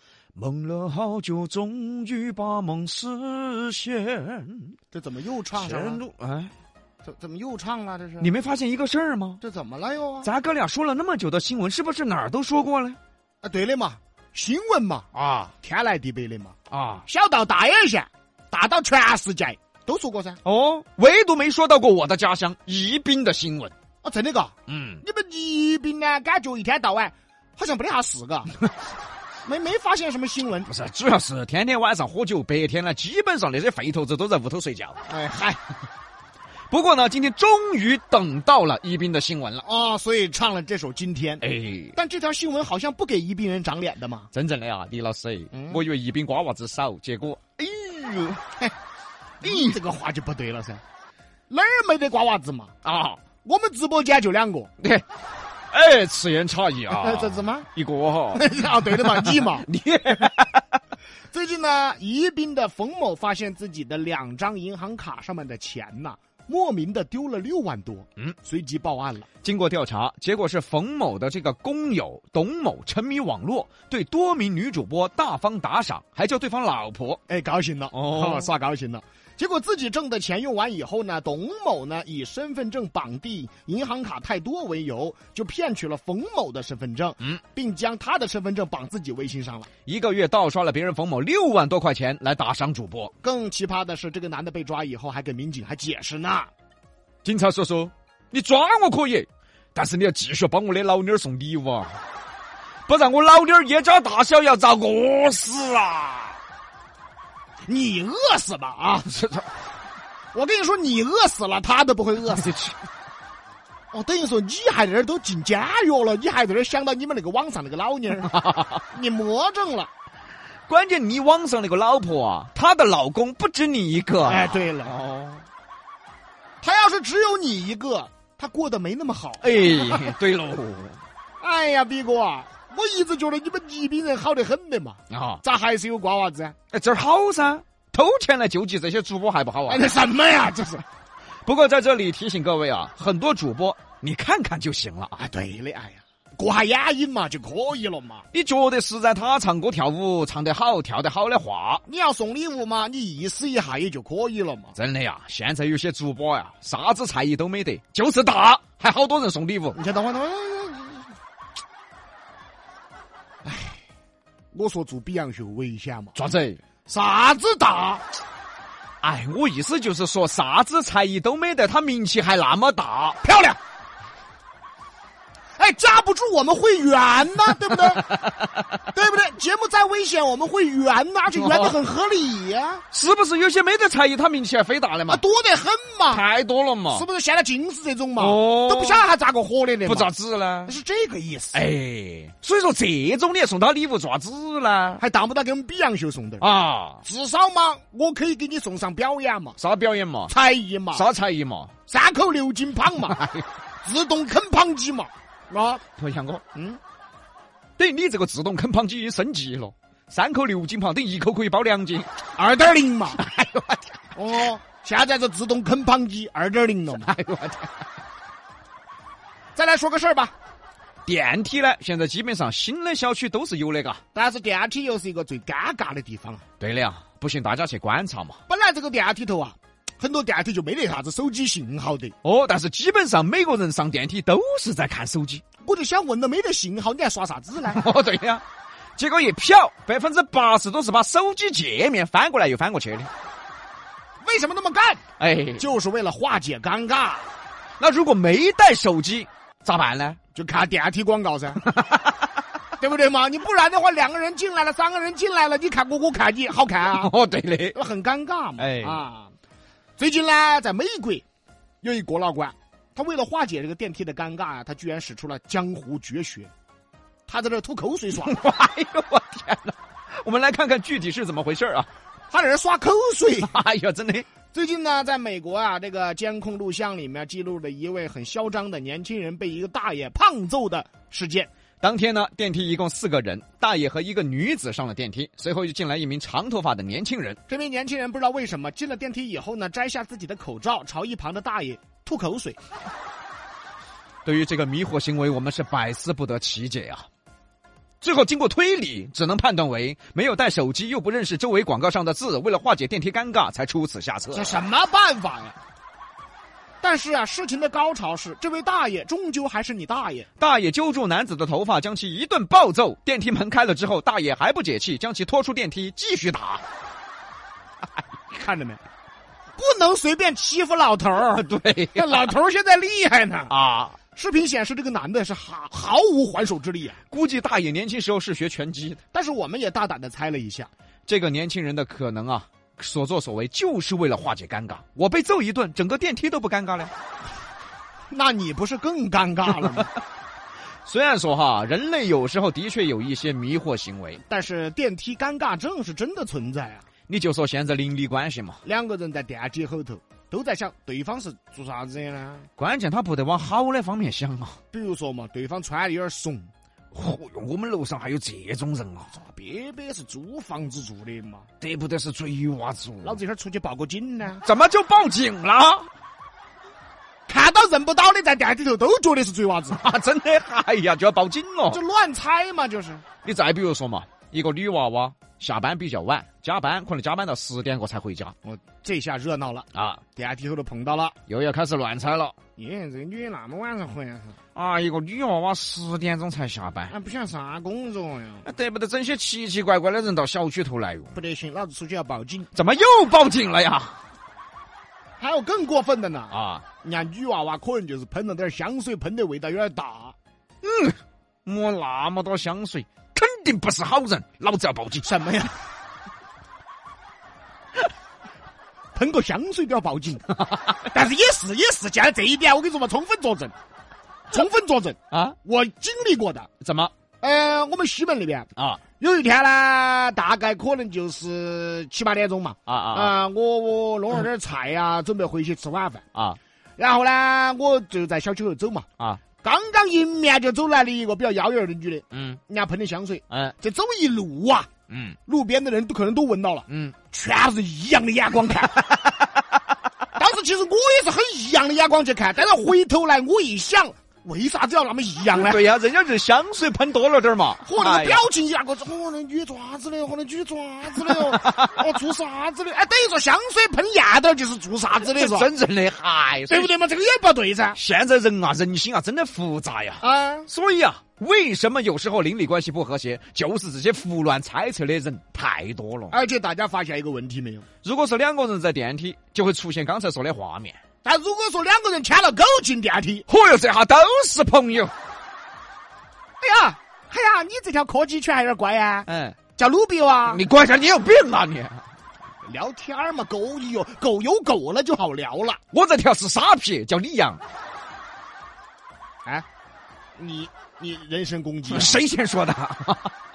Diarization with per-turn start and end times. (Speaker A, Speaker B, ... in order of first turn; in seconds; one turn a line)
Speaker A: 0.3-4.8
Speaker B: 4.9-6.0
Speaker A: 5.5-6.5
Speaker B: 7.0-8.3
Speaker A: 8.2-9.4
Speaker B: 9.4-10.3
Speaker A: 10.2-13.0
Speaker B: 13.4-15.1
Speaker A: 15.1-15.5
Speaker B: 15.6-16.6
Speaker A: 16.7-17.1
Speaker B: 17.1-20.4
Speaker A: 20.4-23.7
Speaker B: 24.0-28.5
Speaker A: 24.7-25.0
Speaker B: 29.4-30.7
Speaker A: 30.7-35.0
Speaker B: 35.1-35.6
Speaker A: 36.7-39.6
Speaker B: 39.6-41.4
Speaker A: 41.4-42.0
Speaker B: 42.0-44.3
Speaker A: 44.3-48.4
Speaker B: 45.5-45.8
Speaker B: 49.4-50.8
Speaker A: 49.4-49.8
Speaker B: 51.5-52.7
Speaker A: 52.8-53.2
Speaker B: 53.4-54.7
Speaker A: 54.8-55.0
Speaker A: 55.7-60.8
Speaker B: 56.9-57.7
Speaker B: 58.3-59.7
Speaker B: 61.3-69.3
Speaker A: 69.4-77.2
Speaker B: 77.3-89.7
Speaker A: 77.9-78.5
Speaker A: 89.9-93.1
Speaker B: 93.2-96.5
Speaker A: 97.2-102.0
Speaker A: 102.9-106.4
Speaker B: 107.7-109.1
Speaker A: 109.0-109.5
Speaker B: 110.3-112.6
Speaker B: 113.9-118.3
Speaker A: 118.3-118.8
Speaker B: 118.9-119.9
Speaker A: 120.7-125.4
Speaker B: 124.2-125.0
Speaker B: 126.6-130.1
Speaker A: 129.4-131.0
Speaker B: 131.4-136.5
Speaker A: 135.1-135.4
Speaker A: 136.7-139.9
Speaker B: 139.7-140.8
Speaker A: 141.4-145.2
Speaker B: 145.2-148.2
Speaker A: 148.3-151.8
Speaker B: 151.9-154.8
Speaker A: 154.8-159.8
Speaker B: 159.8-161.1
Speaker B: 163.4-163.8
Speaker B: 164.5-166.1
Speaker A: 166.2-166.6
Speaker B: 166.9-168.0
Speaker A: 169.0-173.2
Speaker B: 173.2-173.6
Speaker B: 175.6-178.2
Speaker A: 177.7-178.7
Speaker B: 178.9-182.8
Speaker A: 181.3-181.8
Speaker A: 182.9-185.2
Speaker B: 185.1-186.2
Speaker A: 186.1-187.1
Speaker B: 186.9-190.1
Speaker A: 188.2-189.1
Speaker A: 189.8-190.7
Speaker B: 190.7-191.6
Speaker A: 191.5-195.0
Speaker B: 195.0-196.5
Speaker A: 196.4-197.0
Speaker B: 197.0-199.6
Speaker A: 199.6-200.3
Speaker B: 200.3-201.1
Speaker A: 200.9-201.7
Speaker B: 201.9-203.2
Speaker A: 203.0-203.5
Speaker B: 203.8-205.8
Speaker A: 206.0-206.4
Speaker B: 206.5-206.8
Speaker A: 207.8-212.1
Speaker B: 212.3-213.2
Speaker A: 213.2-214.0
Speaker B: 214.2-217.1
Speaker A: 217.0-217.7
Speaker B: 219.5-220.3
Speaker A: 221.0-224.0
Speaker B: 224.1-226.4
Speaker A: 226.6-228.4
Speaker B: 228.5-232.2
Speaker A: 232.2-235.4
Speaker B: 235.6-237.8
Speaker A: 237.7-238.4
Speaker A: 239.0-243.1
Speaker B: 244.2-245.0
Speaker A: 245.2-245.7
Speaker B: 245.6-247.3
Speaker A: 247.8-250.2
Speaker B: 250.3-251.7
Speaker A: 251.8-252.2
Speaker B: 252.8-257.1
Speaker A: 256.9-257.7
Speaker B: 257.7-259.3
Speaker A: 258.6-259.0
Speaker B: 260.0-261.2
Speaker B: 261.8-266.5
Speaker B: 267.3-268.4
Speaker A: 268.2-271.9
Speaker B: 272.3-273.5
Speaker A: 273.4-274.3
Speaker B: 274.5-281.5
Speaker A: 281.8-287.4
Speaker B: 287.5-292.6
Speaker A: 294.2-297.1
Speaker A: 298.0-304.6
Speaker B: 304.3-305.5
Speaker B: 306.8-310.3
Speaker A: 310.4-316.6
Speaker B: 318.3-318.8
Speaker B: 319.6-323.5
Speaker A: 321.3-322.2
Speaker A: 323.5-324.0
Speaker B: 324.1-327.0
Speaker A: 327.1-329.0
Speaker B: 329.1-330.7
Speaker A: 331.1-336.9
Speaker B: 338.1-339.9
Speaker A: 340.8-344.2
Speaker B: 344.2-346.8
Speaker A: 347.1-348.6
Speaker B: 348.6-352.5
Speaker A: 352.6-354.6
Speaker B: 354.7-356.5
Speaker A: 356.9-359.1
Speaker B: 359.1-361.5
Speaker A: 361.6-363.2
Speaker B: 363.0-364.4
Speaker A: 364.4-365.9
Speaker B: 367.3-369.8
Speaker A: 369.7-371.8
Speaker B: 371.7-373.0
Speaker A: 373.2-378.3
Speaker B: 378.4-381.1
Speaker A: 379.7-380.0
Speaker A: 381.3-382.3
Speaker B: 382.6-384.4
Speaker A: 384.5-386.9
Speaker B: 386.9-388.4
Speaker A: 388.4-391.1
Speaker B: 391.1-392.5
Speaker A: 392.5-394.0
Speaker B: 395.2-400.1
Speaker A: 396.3-396.6
Speaker A: 400.6-405.1
Speaker B: 405.0-405.6
Speaker B: 408.9-410.2
Speaker A: 410.3-410.8
Speaker B: 410.9-413.5
Speaker B: 414.3-416.5
Speaker A: 415.1-415.4
Speaker A: 416.6-416.9
Speaker B: 417.2-426.0
Speaker A: 418.6-418.8
Speaker A: 422.7-423.1
Speaker B: 426.8-428.9
Speaker B: 429.4-434.7
Speaker A: 432.1-432.4
Speaker A: 434.9-435.2
Speaker B: 435.3-438.9
Speaker A: 436.7-436.9
Speaker B: 440.1-445.6
Speaker A: 445.3-448.2
Speaker B: 447.6-455.5
Speaker A: 451.0-451.9
Speaker A: 455.0-456.7
Speaker B: 456.5-457.8
Speaker A: 457.7-466.1
Speaker B: 460.0-460.5
Speaker B: 466.1-467.6
Speaker A: 467.8-470.8
Speaker B: 471.0-473.2
Speaker A: 473.3-474.9
Speaker B: 476.4-480.4
Speaker A: 479.1-479.4
Speaker A: 480.3-481.8
Speaker B: 482.4-485.6
Speaker A: 485.7-487.4
Speaker B: 490.2-492.0
Speaker A: 491.7-493.1